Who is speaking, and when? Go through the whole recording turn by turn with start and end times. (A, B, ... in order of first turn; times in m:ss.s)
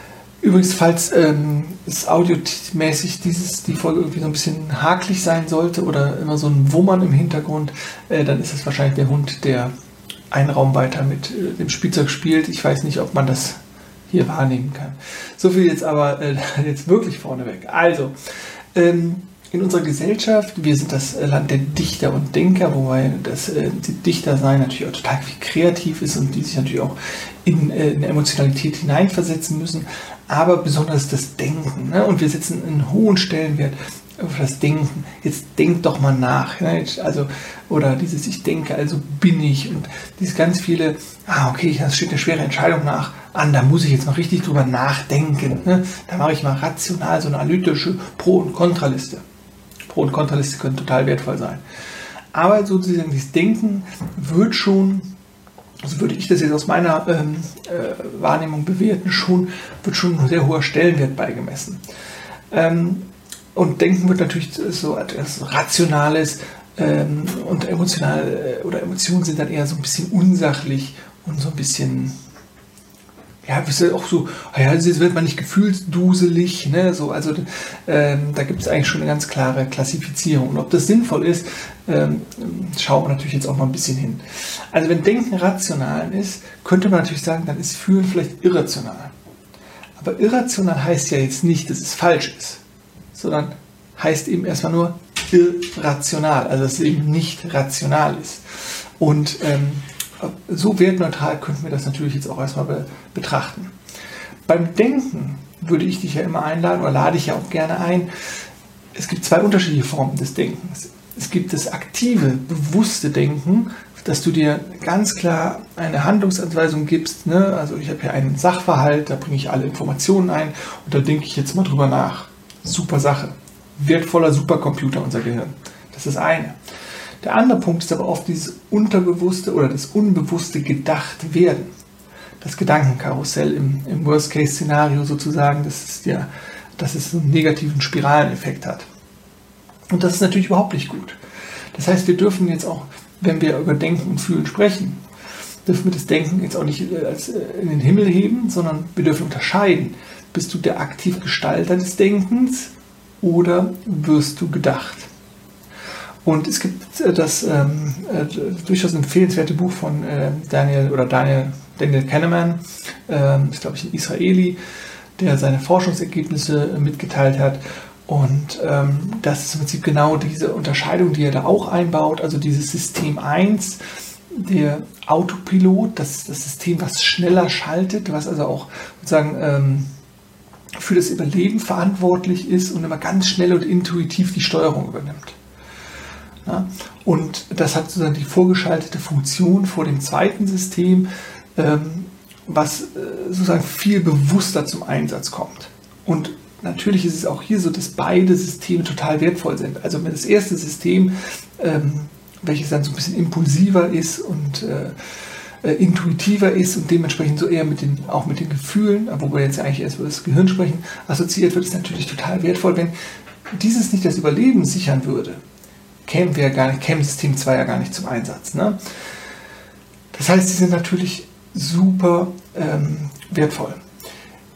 0:00.4-0:09.7 A
0:10.3-0:13.6 A
0:14.1-0:18.1 A
0:18.8-0:49.2 A
0:49.9-0:51.6 A
0:52.3-0:55.1 A
0:55.8-1:01.8 A
1:02.5-1:12.2 A
1:13.4-1:29.1 A
1:30.0-1:32.6 A
1:33.1-1:38.4 A
1:39.0-1:43.7 A
1:44.5-1:48.1 A
1:49.0-2:06.6 A
2:07.2-2:11.7 A
2:12.4-2:18.9 A
2:19.9-2:21.2 A
2:21.7-2:25.0 A
2:25.7-2:35.1 A
2:36.2-2:44.6 A
2:45.2-2:59.9 A
3:00.8-3:05.4 A
3:06.4-3:25.0 A
3:25.6-3:32.9 A
3:33.5-3:35.4 A
3:36.1-3:38.8 A
3:40.1-3:43.8 A